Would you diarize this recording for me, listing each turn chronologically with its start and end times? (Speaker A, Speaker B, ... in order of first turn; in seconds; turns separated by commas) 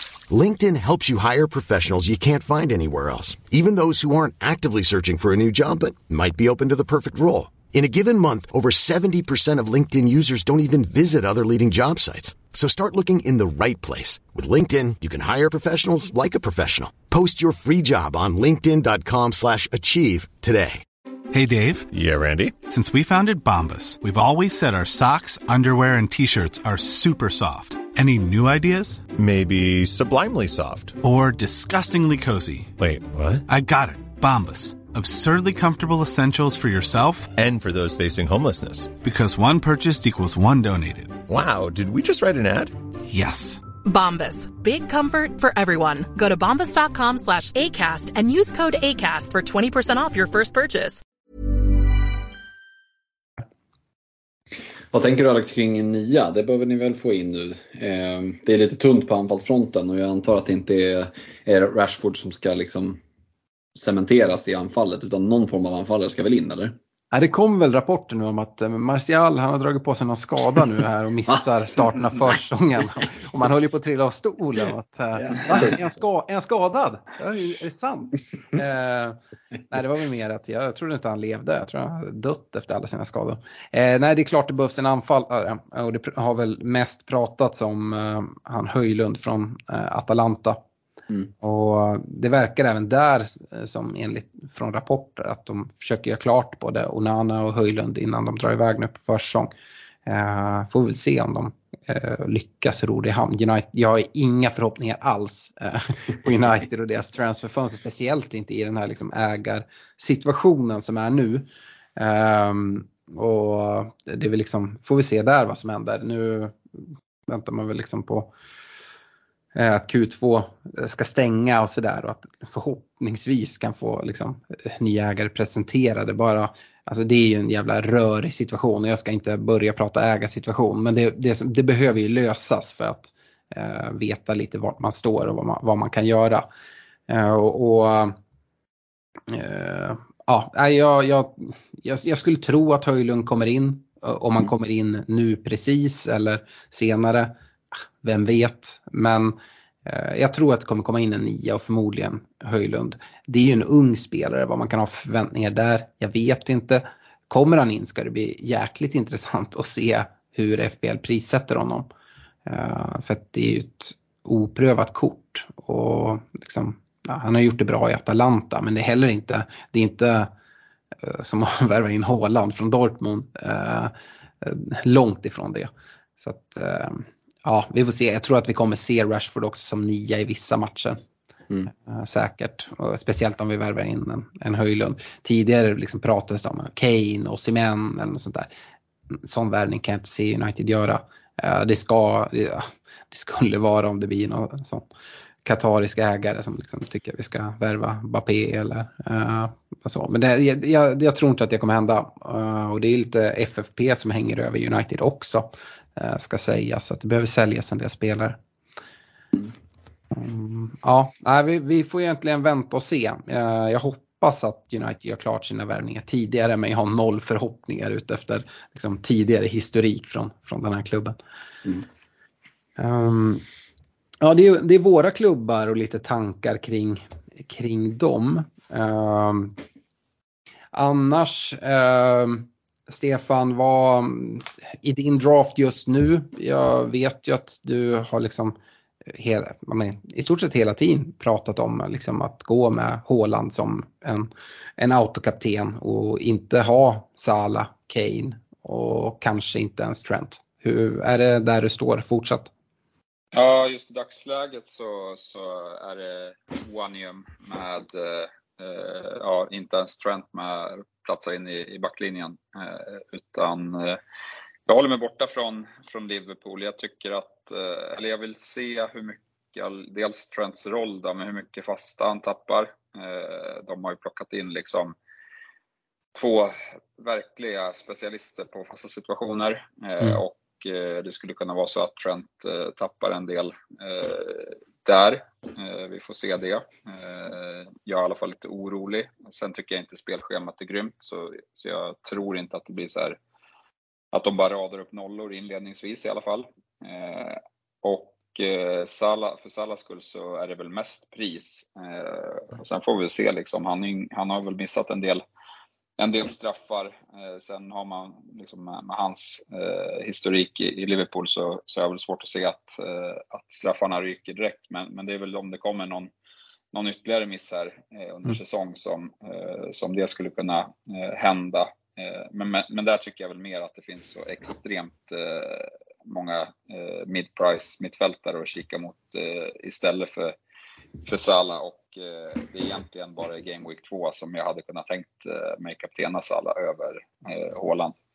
Speaker A: 0.3-20.8, Speaker B: 21.3-21.9, Speaker C: 21.9-22.6, Speaker B: 22.7-29.1, Speaker C: 29.1-31.0, Speaker B: 31.0-32.7, Speaker C: 32.8-33.5, Speaker B: 33.5-37.3, Speaker C: 37.4-39.0, Speaker B: 39.0-41.2, Speaker C: 41.3-42.8, Speaker B: 43.1-43.6, Speaker D: 43.9-51.0, Speaker E: 54.9-63.0, Speaker E: 63.8-66.8, Speaker F: 67.1-79.2, Speaker F: 79.7-90.6, Speaker F: 91.4-99.5, Speaker F: 100.1-116.6, Speaker F: 117.3-118.3, Speaker F: 119.5-136.5, Speaker F: 137.1-138.1, Speaker F: 139.3-147.3, Speaker F: 148.0-161.9, Speaker F: 162.5-170.3, Speaker F: 171.0-181.0, Speaker F: 181.7-188.5, Speaker F: 189.2-194.9, Speaker F: 195.4-208.4, Speaker F: 210.1-221.2, Speaker F: 222.8-223.4, Speaker F: 224.2-229.6, Speaker F: 230.7-238.6, Speaker F: 239.1-252.5, Speaker G: 253.3-264.0, Speaker G: 264.7-275.0, Speaker G: 276.1-293.2, Speaker G: 294.1-305.2, Speaker G: 306.0-316.1, Speaker G: 316.7-330.4, Speaker G: 331.1-338.0